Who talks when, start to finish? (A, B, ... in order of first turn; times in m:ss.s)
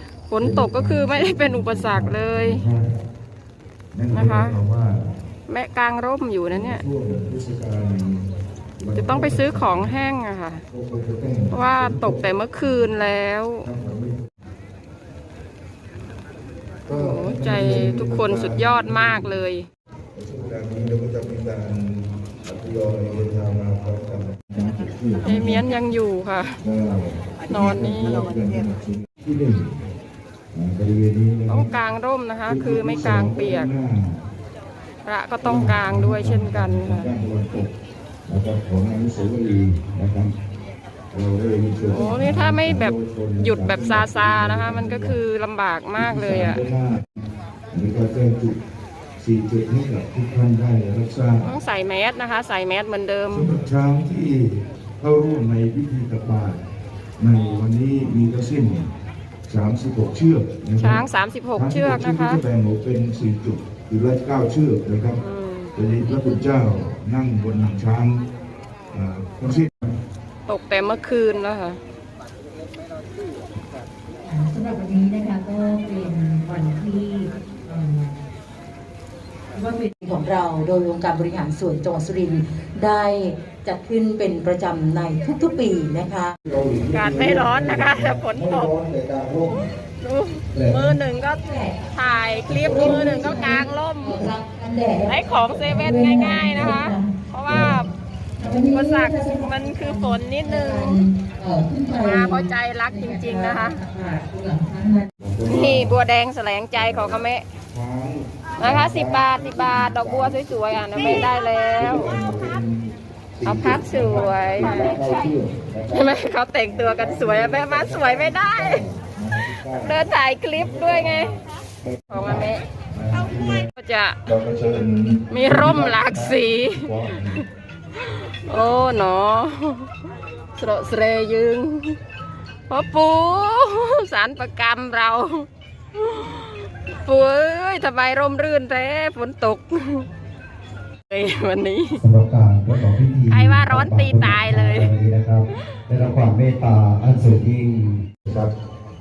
0:00.3-0:02.6 A
0:00.4-0:03.0 B
0:00.8-0:02.2 C
0:03.9-0:05.0 B
0:04.1-0:04.6 A
0:05.5-0:06.8 A
0:06.5-0:08.2 B
0:08.8-0:09.9 B
0:08.9-0:10.6 A
0:10.7-0:12.2 B
0:11.5-0:13.7 A
0:13.7-0:14.1 B
0:16.9-0:19.2 B
0:16.9-0:19.6 A
0:17.4-0:19.3 C
0:20.1-0:25.6 B
0:22.8-0:23.1 C
0:25.2-0:26.6 A
0:26.6-0:29.8 B
0:27.5-0:28.4 A
0:30.5-0:31.7 B
0:31.5-0:33.7 A
0:32.5-0:34.0 B
0:35.0-0:37.1 A
0:35.4-0:37.7 B
0:38.3-0:40.3 B
0:41.1-0:45.1 B
0:41.9-0:46.6 A
0:42.2-0:43.2 C
0:44.2-0:45.1 C
0:46.0-0:47.0 B
0:47.7-0:48.5 B
0:49.2-0:51.4 B
0:51.4-0:53.6 A
0:53.3-0:56.6 B
0:57.2-0:58.8 B
0:59.5-1:01.0 B
1:00.8-1:02.4 A
1:01.6-1:05.2 B
1:05.2-1:05.7 A
1:05.8-1:08.2 B
1:08.9-1:09.8 B
1:10.5-1:11.8 A
1:14.2-1:18.1 D
1:19.5-1:26.3 D
1:26.5-1:29.6 B
1:26.9-1:28.7 A
1:30.0-1:31.4 A
1:31.4-1:31.8 D
1:31.9-1:34.3 A
1:32.5-1:37.8 D
1:32.7-1:33.1 C
1:35.0-1:37.9 A
1:37.5-1:37.8 C
1:38.4-1:45.1 D
1:38.4-1:41.0 A
1:42.0-1:43.8 A
1:45.2-1:46.0 B
1:45.4-1:47.4 A
1:46.8-1:47.2 B
1:47.7-1:56.1 B
1:48.6-1:52.1 A
1:53.4-1:55.3 A
1:55.9-1:58.8 A
1:56.7-2:00.0 B
1:59.7-2:01.3 A
2:00.6-2:01.0 B
2:01.0-2:01.3 C
2:01.8-2:03.6 B
2:02.1-2:02.6 A
2:03.8-2:04.2 A
2:04.3-2:07.4 B
2:05.3-2:07.4 A
2:08.0-2:09.9 A
2:10.6-2:12.0 A
2:12.7-2:15.4 A
2:16.0-2:16.5 A
2:17.0-2:20.1 A
2:21.1-2:22.0 A
2:22.0-2:28.5 C
2:23.3-2:24.9 A